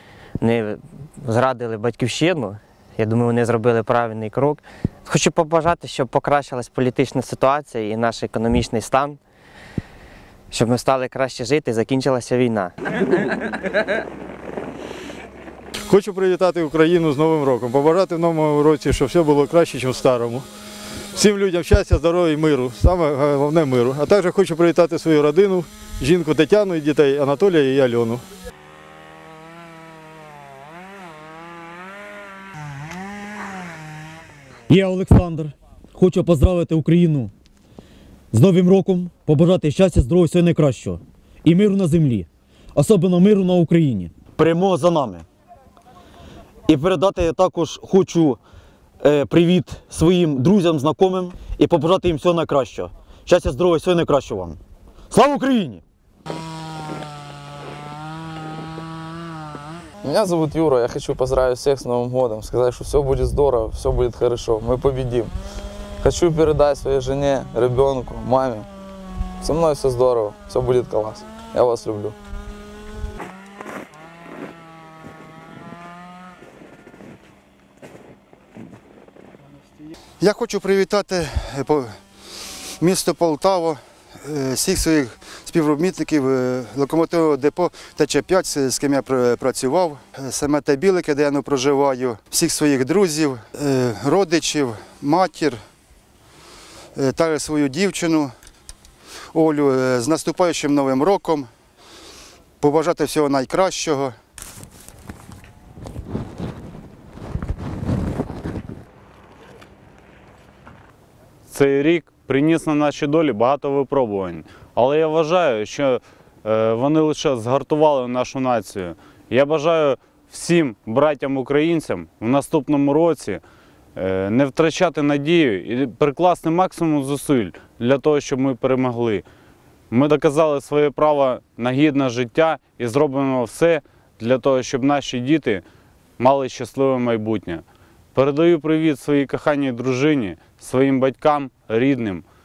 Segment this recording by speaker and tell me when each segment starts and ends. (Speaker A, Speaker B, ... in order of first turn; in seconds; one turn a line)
Speaker A: 0.4-9.2
Speaker A: 10.5-12.7
Speaker B: 15.9-20.4
Speaker B: 21.1-28.2
Speaker C: 34.7-37.3
Speaker C: 38.3-45.2
Speaker C: 46.7-48.4
Speaker C: 49.0-54.6
Speaker C: 55.1-55.8
Speaker D: 60.0-65.3
Speaker D: 66.0-68.7
Speaker D: 69.4-72.2
Speaker E: 80.2-81.9
Speaker E: 82.8-95.6
Speaker E: 96.9-98.3
Speaker E: 99.3-101.5
Speaker E: 102.6-104.1
Speaker F: 111.5-123.4
Speaker F: 124.0-129.2
Speaker F: 129.9-135.6
Speaker F: 136.2-137.6
Speaker F: 138.1-142.2